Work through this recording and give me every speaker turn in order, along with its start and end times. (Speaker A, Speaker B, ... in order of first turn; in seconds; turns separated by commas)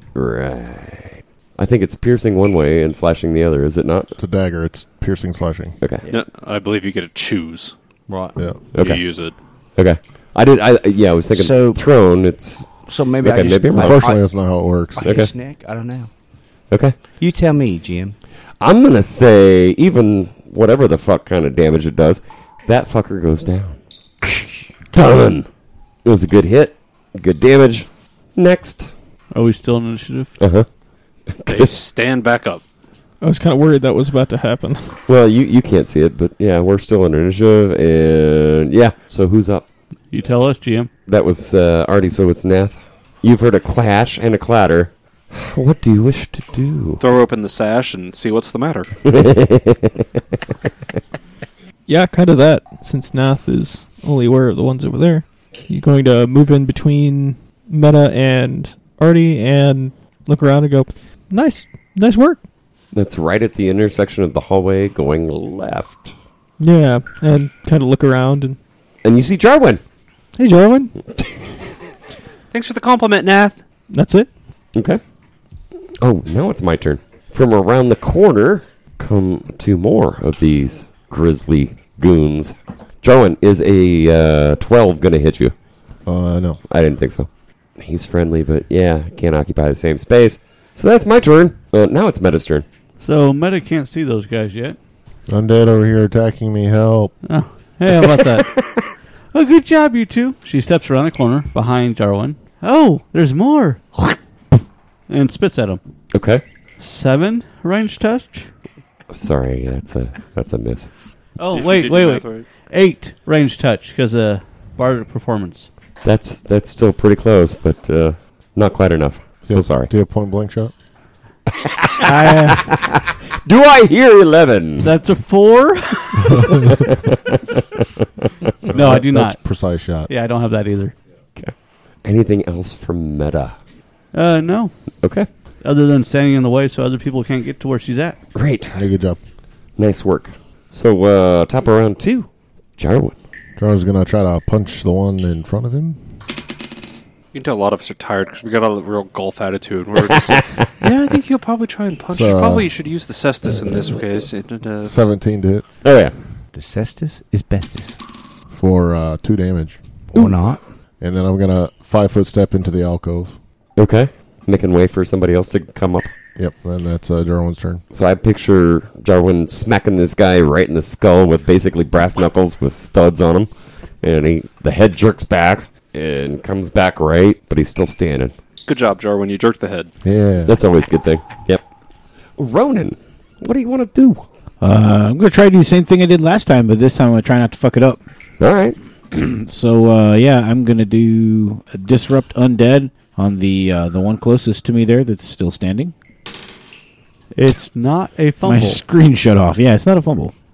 Speaker A: 0.1-4.2, Speaker B: 4.2-5.8, Speaker A: 5.8-6.0, Speaker C: 6.1-7.7, Speaker D: 8.1-8.4, Speaker A: 8.7-9.1, Speaker C: 8.8-9.3, Speaker A: 9.8-14.1, Speaker D: 11.3-11.8, Speaker D: 12.8-16.1, Speaker B: 13.8-15.1, Speaker A: 15.0-15.3, Speaker A: 16.7-17.0, Speaker D: 17.2-18.2, Speaker A: 18.6-25.5, Speaker A: 26.1-28.9, Speaker E: 29.3-30.3, Speaker A: 30.4-30.7, Speaker A: 31.3-31.8, Speaker C: 31.5-32.6, Speaker F: 33.2-35.0, Speaker A: 35.1-39.7, Speaker E: 40.1-40.9, Speaker A: 41.1-47.0, Speaker C: 47.0-48.9, Speaker A: 49.0-50.0, Speaker F: 51.9-62.4, Speaker A: 62.9-66.1, Speaker F: 66.6-68.6, Speaker A: 69.0-69.8, Speaker F: 70.4-70.9, Speaker C: 72.5-73.6, Speaker F: 73.9-74.3, Speaker A: 74.8-75.0, Speaker A: 76.0-85.5, Speaker B: 86.1-86.6, Speaker A: 86.7-92.7, Speaker E: 93.0-94.8, Speaker B: 95.3-97.2, Speaker E: 97.2-98.5, Speaker A: 98.4-98.8, Speaker E: 99.3-104.2, Speaker E: 105.1-105.8, Speaker A: 106.1-106.4, Speaker E: 106.8-108.5, Speaker A: 109.1-110.9, Speaker E: 111.4-115.7, Speaker C: 111.5-112.5, Speaker A: 116.0-119.9, Speaker B: 119.5-120.7, Speaker A: 121.5-124.9, Speaker F: 122.1-122.6, Speaker E: 124.8-126.5, Speaker A: 127.0-127.6, Speaker B: 128.7-130.1, Speaker E: 128.7-129.4, Speaker E: 130.1-131.0, Speaker A: 131.3-133.6, Speaker E: 134.1-134.8, Speaker A: 135.0-135.3, Speaker E: 135.6-138.2, Speaker A: 138.3-138.8, Speaker B: 138.7-139.2, Speaker A: 139.8-143.2, Speaker B: 143.6-146.0, Speaker C: 147.3-154.9, Speaker A: 150.0-150.7, Speaker B: 152.1-152.7, Speaker B: 154.8-155.7, Speaker A: 155.8-156.2, Speaker D: 156.5-158.0, Speaker B: 158.5-159.8, Speaker D: 160.1-160.6, Speaker B: 161.0-163.4, Speaker A: 163.8-166.1, Speaker B: 166.4-167.8, Speaker A: 167.9-178.3, Speaker C: 178.7-179.9, Speaker B: 180.0-180.6, Speaker A: 180.5-181.6, Speaker A: 182.4-184.2, Speaker G: 184.6-188.0, Speaker A: 188.4-188.8, Speaker G: 189.1-195.9, Speaker E: 197.3-198.8, Speaker G: 198.4-200.3